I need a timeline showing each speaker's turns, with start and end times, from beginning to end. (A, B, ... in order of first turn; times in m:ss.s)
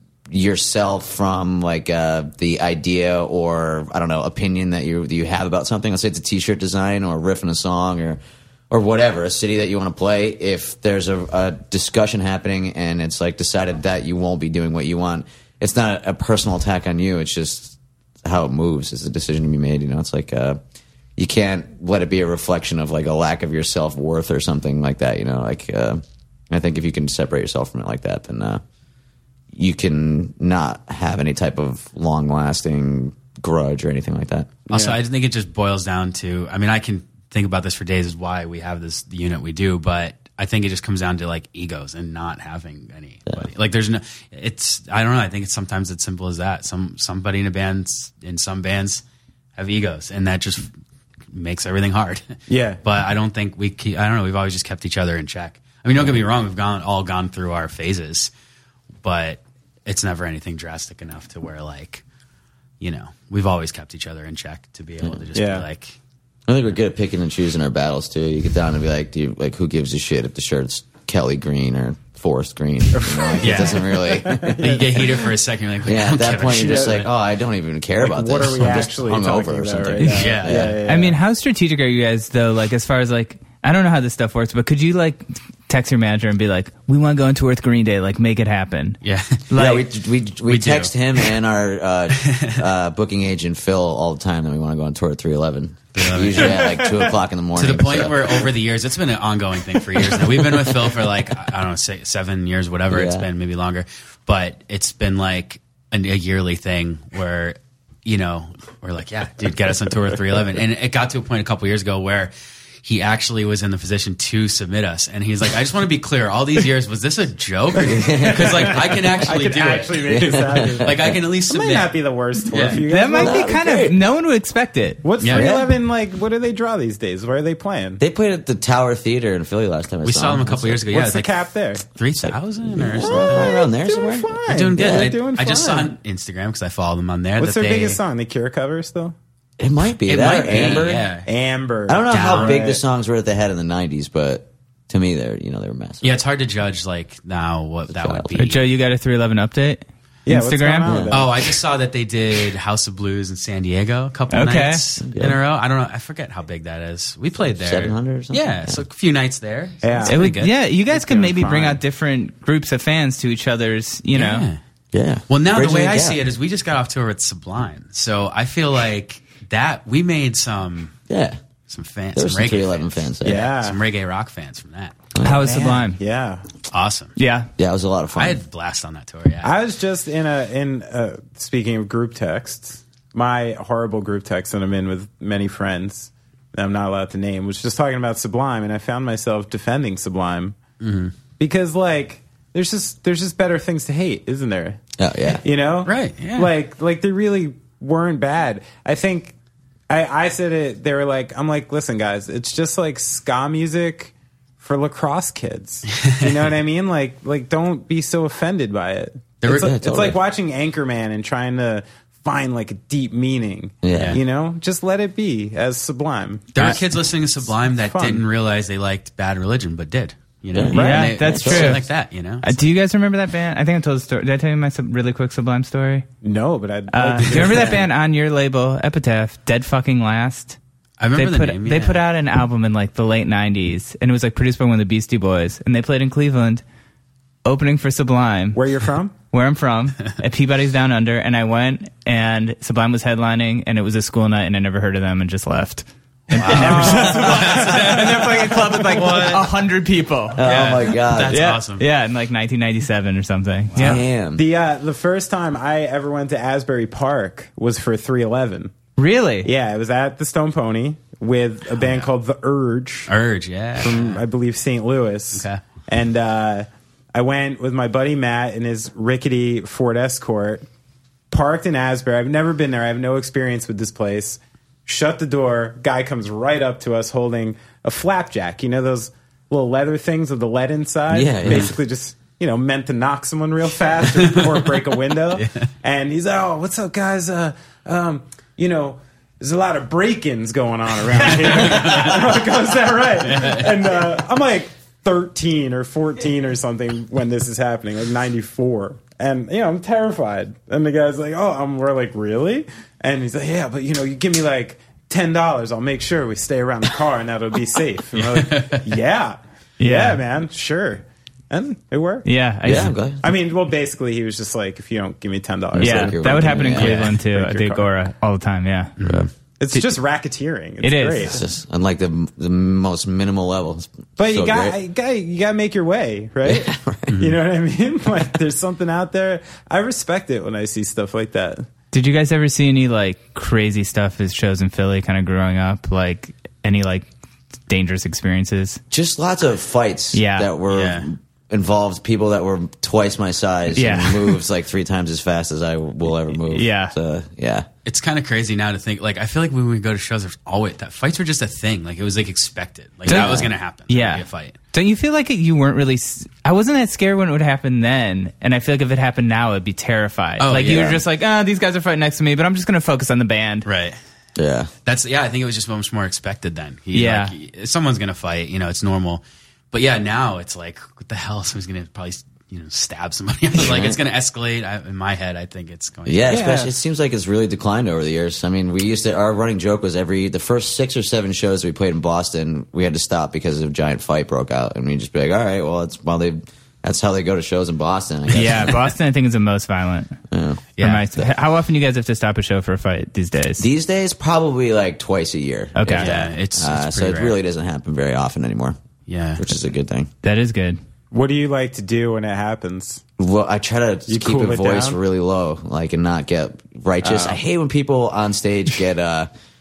0:00.3-0:20.6 A
0:21.2-0:28.6 A
0:29.5-0:34.6 A
0:34.7-0:35.0 B
0:34.7-0:49.0 C
0:49.6-0:50.7 C
0:51.3-0:58.3 C
0:52.5-0:52.8 B
0:59.0-1:02.0 C
1:02.8-1:06.0 C
1:05.3-1:05.6 B
1:06.5-1:14.8 A
1:12.9-1:15.3 B
1:13.4-1:13.8 C
1:14.6-1:17.1 C
1:15.8-1:20.8 A
1:16.5-1:17.0 B
1:18.0-1:21.2 B
1:20.1-1:20.8 C
1:20.8-1:29.0 D
1:29.0-1:29.5 C
1:29.5-1:29.8 D
1:29.5-1:38.5 A
1:30.4-1:30.9 C
1:32.2-1:32.5 C
1:35.9-1:36.8 C
1:37.5-1:52.3 C
1:42.9-1:43.3 A
1:52.8-2:02.0 C
1:57.8-1:59.2 A
1:57.8-2:03.7 B
2:00.0-2:01.2 A
2:02.5-2:02.8 C
2:02.8-2:05.1 D
2:03.2-2:04.0 A
2:05.0-2:08.0 B
2:05.2-2:05.6 C
2:05.3-2:05.7 A
2:08.0-2:10.8 A
2:10.0-2:13.5 C
2:10.9-2:11.8 B
2:12.2-2:15.1 A
2:12.9-2:15.9 B
2:14.5-2:18.0 C
2:17.4-2:19.1 B
2:19.6-2:21.1 A
2:20.0-2:21.3 C
2:20.4-2:22.8 B
2:21.9-2:26.2 A
2:22.1-2:22.7 C
2:26.0-2:28.6 C
2:27.9-2:28.5 A
2:28.4-2:31.0 D
2:30.2-2:31.5 B
2:30.8-2:31.2 A
2:31.1-2:40.5 C
2:34.3-2:34.8 D
2:35.0-2:35.4 A
2:37.4-2:38.8 A
2:39.8-2:41.8 B
2:40.0-2:44.5 D
2:44.1-2:44.6 C
2:44.9-2:46.2 A
2:45.3-2:50.9 C
2:51.1-2:51.4 A
2:51.7-2:55.0 C
2:52.1-2:53.5 A
2:53.2-2:53.8 B
2:55.1-2:55.6 A
2:55.2-2:56.0 D
2:55.3-2:56.4 B
2:56.7-2:57.2 C
2:57.2-2:57.5 D
2:57.6-2:58.4 A
2:58.1-2:59.5 C
2:59.4-3:10.6 B
3:10.8-3:11.1 C
3:11.4-3:14.8 B
3:15.0-3:15.4 A
3:15.4-3:19.3 B
3:15.8-3:16.5 C
3:19.9-3:36.8 B
3:26.0-3:26.4 C
3:29.4-3:29.7 C
3:29.5-3:30.2 A
3:33.8-3:34.2 A
3:33.9-3:34.2 C
3:36.5-3:42.7 C
3:37.4-3:38.2 B
3:40.5-3:41.8 A
3:40.7-3:41.9 D
3:40.8-3:41.1 B
3:42.4-3:46.0 D
3:46.2-3:47.9 B
3:46.9-3:50.6 D
3:51.0-3:52.0 C
3:51.1-3:56.6 D
3:57.4-3:58.6 D
3:58.5-3:59.2 B
3:59.3-4:10.4 D
4:06.3-4:09.5 C
4:06.4-4:09.2 B
4:10.3-4:11.5 A
4:10.4-4:11.8 C
4:11.3-4:14.0 D
4:13.7-4:14.0 C
4:13.8-4:14.4 A
4:14.3-4:18.7 B
4:19.0-4:19.5 D
4:19.4-4:23.1 B
4:21.8-4:22.1 C
4:23.1-4:24.2 C
4:23.8-4:30.6 B
4:25.3-4:25.6 C
4:31.3-5:12.3 B
4:41.1-4:41.7 A
4:41.4-4:41.7 C
4:45.3-4:45.7 C
4:51.4-4:52.3 C
4:53.2-4:54.0 C
5:08.1-5:08.8 C
5:09.8-5:10.2 D
5:12.2-5:12.9 D
5:12.6-5:13.2 A
5:13.2-5:17.9 B
5:15.7-5:17.0 A
5:15.8-5:18.9 D
5:16.8-5:17.2 C
5:19.0-5:19.3 C
5:19.0-5:19.3 A
5:19.6-5:21.4 B
5:20.8-5:21.3 D
5:21.2-5:24.8 A
5:24.2-5:31.7 B
5:26.4-5:27.2 A
5:27.1-5:27.4 C
5:31.9-5:37.1 D
5:37.7-5:38.8 D
5:38.9-5:47.7 A
5:40.1-5:40.5 D
5:40.7-5:41.0 C
5:43.7-5:44.4 D
5:46.5-5:46.9 D
5:47.8-5:54.6 C
5:53.1-5:53.5 A
5:53.1-6:03.7 D
6:00.4-6:01.0 C
6:00.6-6:01.0 A
6:03.6-6:04.0 C
6:04.4-6:04.7 A
6:04.8-6:16.5 C
6:06.9-6:07.3 D
6:13.5-6:14.0 A
6:16.0-6:28.8 A
6:16.3-6:16.7 B
6:28.3-6:30.2 D
6:30.3-6:30.6 A
6:30.8-6:31.0 C
6:30.8-6:33.6 D
6:33.6-6:38.8 A
6:35.8-6:36.1 D
6:35.9-6:37.4 C
6:39.1-6:39.4 C
6:39.4-6:40.1 A
6:40.2-6:40.8 D
6:41.1-6:43.0 B
6:43.2-6:49.3 A
6:44.1-6:45.0 B
6:47.0-6:47.4 B